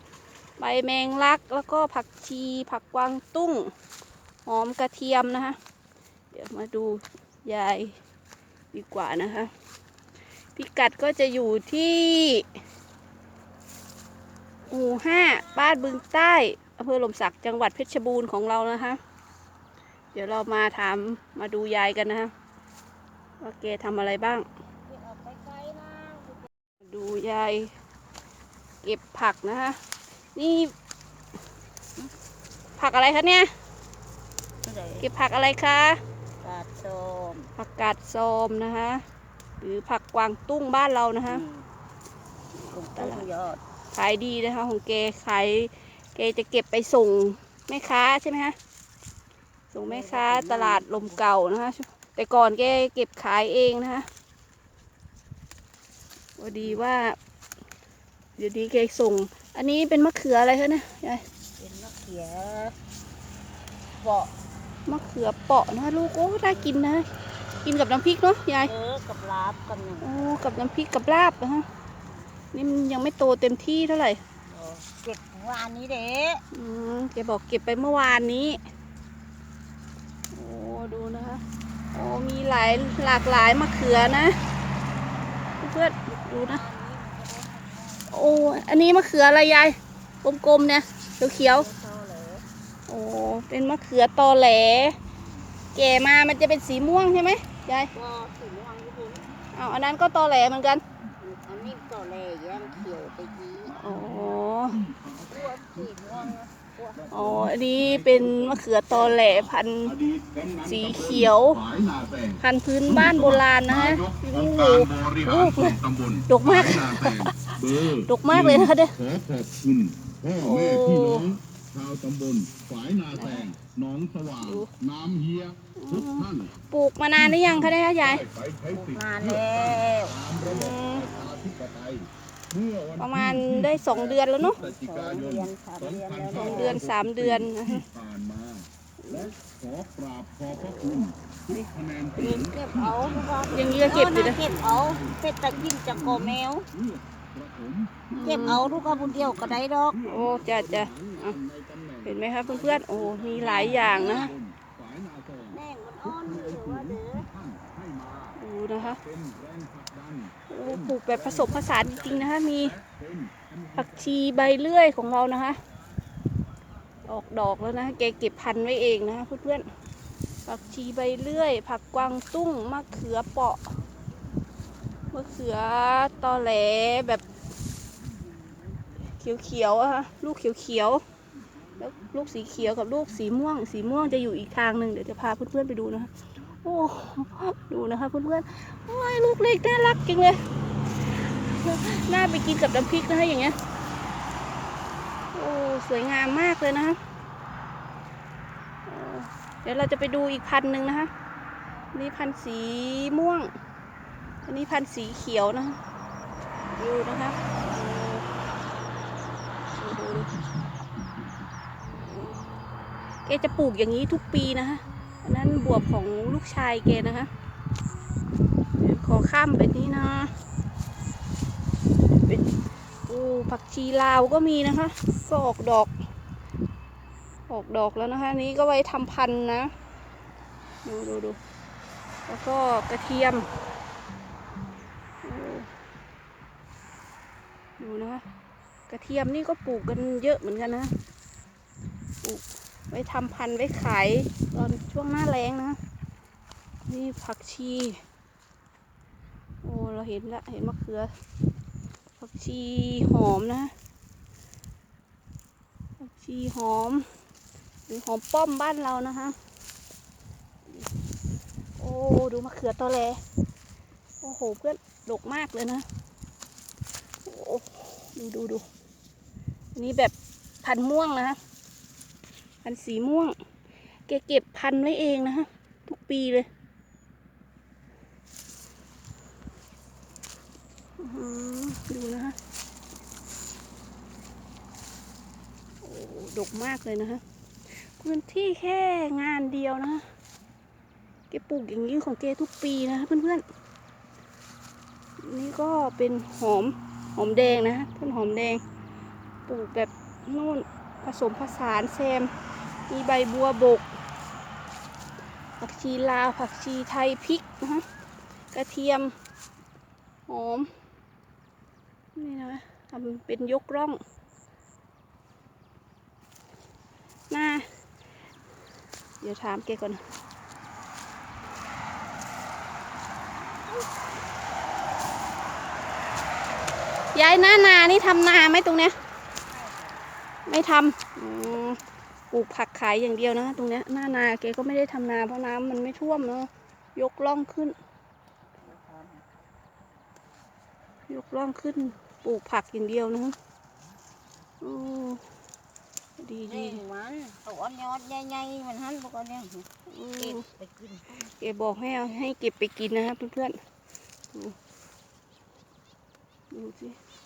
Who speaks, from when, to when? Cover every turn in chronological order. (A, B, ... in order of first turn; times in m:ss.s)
0:00.6-0:03.7 A
0:04.4-0:05.6 A
0:06.3-0:08.0 A
0:08.7-0:09.5 A
0:10.6-0:12.5 A
0:14.6-0:16.0 B
0:14.7-0:19.0 A
0:20.1-0:22.3 A
0:23.4-0:24.5 A
0:24.9-0:26.5 B
0:26.8-0:27.7 A
0:28.8-0:29.8 A
0:30.4-0:30.7 A
0:32.8-0:33.5 A
0:34.6-0:35.1 B
0:35.0-0:36.0 A
0:36.4-0:37.5 B
0:37.6-0:39.0 A
0:39.6-0:41.4 A
0:41.3-0:41.7 B
0:42.7-0:43.6 B
0:42.9-0:43.3 A
0:43.9-0:48.6 A
0:49.7-0:54.1 A
0:49.8-0:51.2 B
0:56.4-0:57.2 A
0:58.4-1:01.2 A
1:01.6-1:02.8 B
1:04.0-1:04.3 B
1:04.9-1:07.1 A
1:07.6-1:08.7 A
1:08.6-1:10.2 B
1:10.0-1:11.7 A
1:12.5-1:14.2 A
1:14.5-1:16.4 B
1:16.5-1:18.6 A
1:20.3-1:21.4 A
1:21.9-1:24.4 A
1:25.6-1:26.6 A
1:26.1-1:28.8 B
1:28.1-1:31.7 A
1:31.3-1:32.4 B
1:32.9-1:35.0 A
1:35.8-1:37.9 A
1:37.9-1:39.3 B
1:39.5-1:40.8 A
1:41.2-1:43.8 B
1:42.6-1:46.3 C
1:43.8-1:44.8 A
1:45.3-1:47.3 B
1:47.1-1:48.6 C
1:47.1-1:50.0 A
1:49.9-2:06.5 C
1:50.6-1:51.7 A
1:52.4-1:59.0 A
2:00.4-2:01.3 A
2:03.2-2:03.5 A
2:04.4-2:04.7 A
2:05.8-2:08.3 A
2:07.2-2:38.4 C
2:08.7-2:10.2 B
2:10.4-2:11.1 A
2:13.0-2:14.6 A
2:14.5-2:16.8 B
2:16.3-2:17.8 A
2:19.0-2:19.3 A
2:20.5-2:21.6 A
2:22.2-2:26.7 B
2:23.5-2:24.4 A
2:28.1-2:28.6 A
2:28.2-2:30.0 B
2:30.1-2:31.4 A
2:32.0-2:34.3 A
2:33.4-2:34.3 B
2:35.5-2:37.3 B
2:38.4-2:39.0 A
2:38.9-2:44.1 C
2:40.5-2:42.8 A
2:43.8-2:45.6 A
2:47.0-2:49.7 A
2:50.5-2:53.7 A
2:55.1-2:57.2 A
2:59.1-3:01.0 A
3:01.8-3:06.1 A
3:06.6-3:10.4 A
3:11.3-3:13.6 A
3:15.3-3:17.0 A
3:18.9-3:21.1 A
3:21.9-3:23.5 A
3:24.5-3:25.8 A
3:26.8-3:28.2 A
3:29.8-3:30.3 A
3:33.3-3:37.3 A
3:38.8-3:40.3 A
3:43.1-3:45.9 A
3:47.5-3:49.7 A
3:50.8-3:51.4 A
3:52.3-3:53.5 A
3:55.2-3:55.7 A
3:57.8-3:58.2 A
3:58.9-4:00.9 A
4:02.2-4:05.8 A
4:06.8-4:08.0 A
4:09.6-4:11.1 A
4:12.2-4:13.7 A
4:16.0-4:17.1 A
4:17.9-4:19.4 A
4:21.8-4:23.2 A
4:24.2-4:25.8 A
4:27.2-4:28.6 A
4:29.8-4:31.4 A
4:32.6-4:33.4 A
4:34.1-4:36.5 A
4:41.0-4:42.4 A
4:45.8-4:47.2 A
4:47.7-4:50.0 A
4:51.3-4:53.4 A
4:55.2-4:58.6 A
4:59.5-5:02.3 A
5:02.9-5:03.9 A
5:05.6-5:07.8 A
5:08.5-5:09.1 A
5:10.3-5:10.7 A
5:12.2-5:14.0 A
5:17.3-5:17.7 A
5:19.2-5:20.0 A
5:27.1-5:28.9 A
5:29.4-5:30.1 B
5:30.5-5:37.8 A
5:38.6-5:39.2 B
5:41.1-5:43.4 A
5:44.6-5:45.2 A
5:46.2-5:46.8 A
5:46.5-5:49.7 B
5:49.9-5:50.4 A
5:50.2-5:51.3 B
5:51.3-5:53.6 A
5:56.5-5:57.0 A